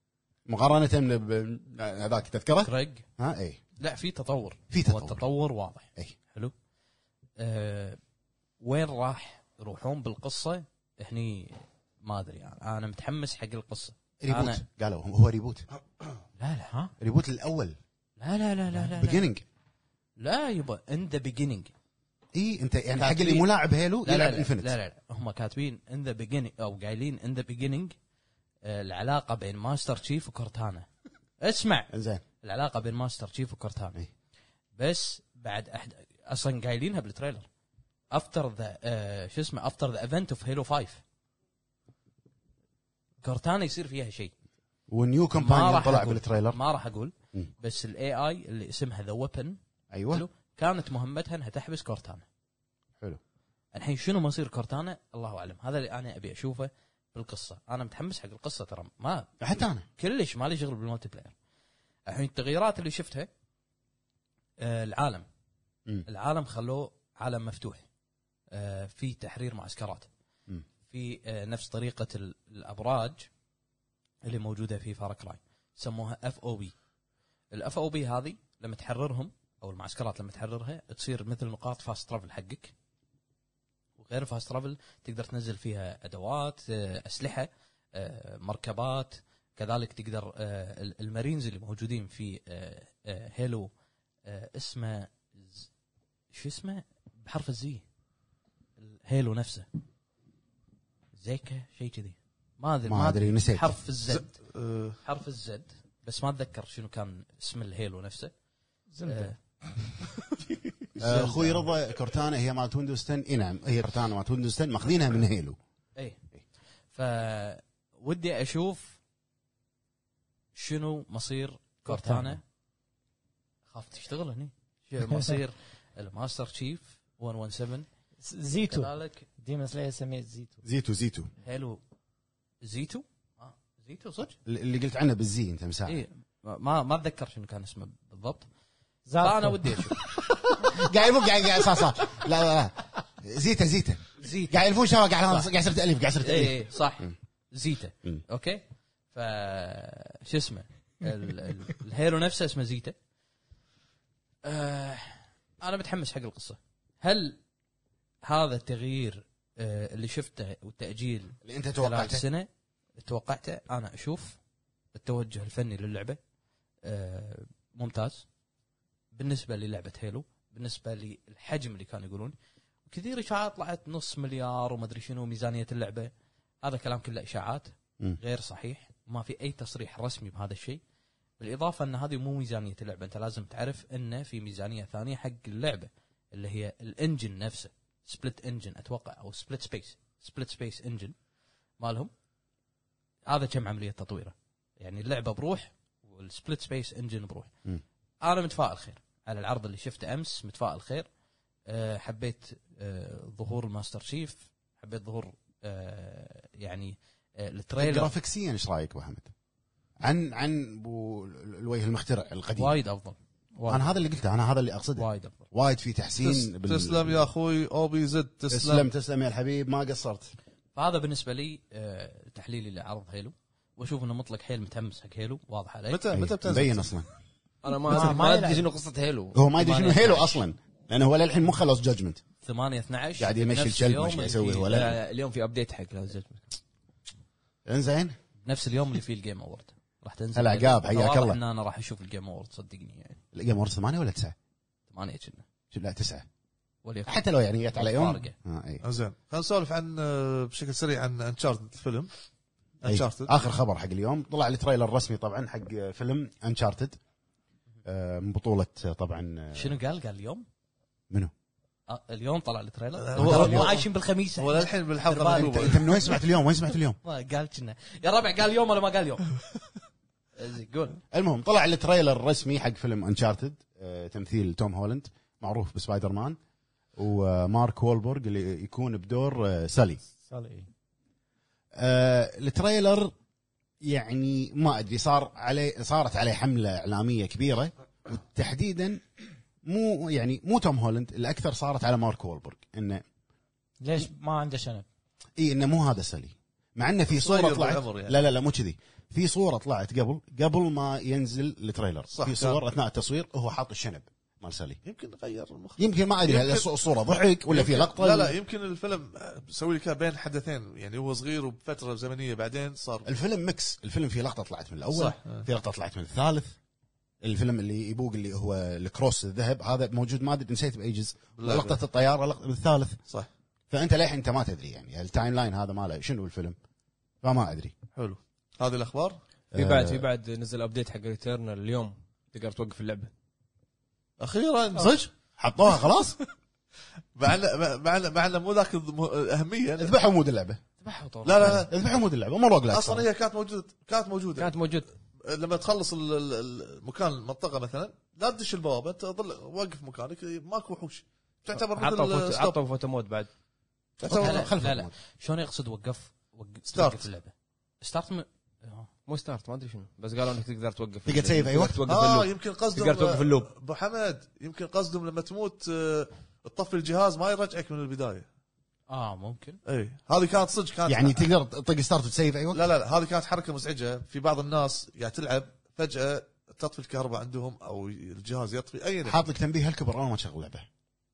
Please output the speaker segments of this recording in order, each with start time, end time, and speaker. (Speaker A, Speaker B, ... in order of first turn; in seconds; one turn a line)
Speaker A: 0.5-3.6
Speaker B: 2.6-3.0
Speaker B: 3.8-6.5
Speaker A: 4.7-5.2
Speaker B: 7.4-8.0
Speaker B: 8.6-14.6
Speaker A: 14.2-15.7
Speaker B: 16.4-16.9
Speaker A: 17.0-17.8
Speaker B: 18.2-19.3
Speaker A: 18.8-19.4
Speaker B: 20.2-21.7
Speaker A: 22.3-24.8
Speaker B: 23.0-23.5
Speaker B: 24.0-27.9
Speaker B: 28.6-30.9
Speaker B: 31.4-31.9
Speaker A: 31.9-32.2
Speaker B: 32.4-34.0
Speaker B: 34.8-37.5
Speaker B: 38.1-41.0
Speaker B: 43.2-44.3
Speaker A: 44.9-46.6
Speaker B: 45.4-49.6
Speaker A: 49.9-50.2
Speaker B: 50.1-52.2
Speaker B: 53.7-59.3
Speaker A: 59.4-59.9
Speaker B: 60.0-61.3
Speaker B: 62.1-63.3
Speaker B: 64.6-65.3
Speaker B: 66.1-67.8
Speaker B: 68.5-70.1
Speaker B: 70.9-73.3
Speaker B: 74.2-76.7
Speaker B: 77.5-82.7
Speaker B: 84.0-93.7
Speaker B: 94.3-95.7
Speaker B: 96.3-97.8
Speaker B: 98.8-99.7
Speaker B: 101.2-104.4
Speaker A: 102.9-103.8
Speaker C: 104.1-105.0
Speaker B: 105.0-108.3
Speaker D: 108.9-109.9
Speaker B: 109.0-109.3
Speaker A: 111.0-115.6
Speaker B: 116.9-119.0
Speaker B: 120.5-122.4
Speaker D: 121.9-122.4
Speaker B: 123.7-127.9
Speaker D: 128.2-130.6
Speaker B: 128.7-129.3
Speaker A: 130.6-131.3
Speaker B: 131.4-131.8
Speaker B: 132.6-134.4
Speaker A: 134.4-136.0
Speaker B: 135.9-138.5
Speaker D: 139.1-140.0
Speaker B: 139.2-140.0
Speaker A: 140.5-147.1
Speaker B: 144.2-144.6
Speaker B: 146.2-152.9
Speaker B: 154.4-157.4
Speaker B: 158.3-164.4
Speaker A: 161.4-162.2
Speaker B: 164.9-166.2
Speaker B: 166.8-168.3
Speaker B: 169.1-172.3
Speaker B: 172.9-176.1
Speaker B: 176.6-180.8
Speaker B: 181.4-191.2
Speaker B: 191.8-192.1
Speaker B: 193.3-197.5
Speaker B: 198.2-201.1
Speaker B: 201.7-208.1
Speaker A: 207.8-209.3
Speaker A: 210.0-212.7
Speaker B: 212.6-213.9
Speaker A: 213.7-217.3
Speaker B: 215.0-215.5
Speaker C: 216.2-218.9
Speaker A: 218.5-220.3
Speaker B: 220.8-226.0
Speaker C: 225.9-226.9
Speaker A: 226.1-227.1
Speaker E: 227.6-229.4
Speaker D: 227.8-228.7
Speaker A: 229.3-232.2
Speaker B: 229.6-230.4
Speaker B: 232.4-234.8
Speaker A: 233.2-235.0
Speaker E: 234.7-236.5
Speaker A: 237.7-238.2
Speaker B: 238.4-243.2
Speaker A: 240.3-241.4
Speaker A: 243.3-244.3
Speaker B: 244.9-245.5
Speaker A: 245.7-246.3
Speaker B: 246.8-247.2
Speaker A: 247.1-248.8
Speaker B: 247.7-248.3
Speaker C: 248.8-252.1
Speaker C: 252.8-253.3
Speaker A: 252.8-257.0
Speaker A: 257.9-259.8
Speaker B: 259.5-260.5
Speaker B: 261.9-265.9
Speaker C: 263.0-266.0
Speaker A: 263.1-263.8
Speaker A: 265.3-267.0
Speaker B: 267.0-269.3
Speaker B: 270.4-271.0
Speaker A: 271.1-276.4
Speaker A: 277.0-280.0
Speaker D: 280.2-280.7
Speaker A: 281.8-283.1
Speaker A: 283.8-289.0
Speaker A: 289.6-293.0
Speaker D: 293.8-294.9
Speaker A: 295.4-304.8
Speaker C: 297.1-298.2
Speaker C: 302.1-302.6
Speaker C: 304.8-306.7
Speaker A: 305.8-308.4
Speaker C: 307.5-313.1
Speaker A: 313.1-316.6
Speaker C: 314.9-315.5
Speaker A: 317.2-323.0
Speaker C: 321.4-321.8
Speaker A: 323.7-326.6
Speaker A: 327.2-327.7
Speaker C: 327.9-329.2
Speaker A: 329.5-330.1
Speaker E: 329.5-333.1
Speaker C: 334.2-335.0
Speaker A: 334.7-336.2
Speaker C: 337.1-339.9
Speaker A: 339.8-340.6
Speaker E: 340.9-341.7
Speaker C: 341.2-341.7
Speaker A: 341.4-343.1
Speaker C: 342.7-344.5
Speaker E: 344.4-344.9
Speaker C: 345.2-352.6
Speaker E: 351.6-353.3
Speaker C: 354.0-354.5
Speaker A: 354.0-354.9
Speaker B: 354.1-358.9
Speaker C: 356.7-357.1
Speaker E: 359.1-363.5
Speaker A: 361.1-361.8
Speaker C: 361.9-368.3
Speaker B: 368.9-369.6
Speaker C: 369.6-371.3
Speaker A: 370.9-372.7
Speaker C: 372.5-379.2
Speaker A: 379.1-380.7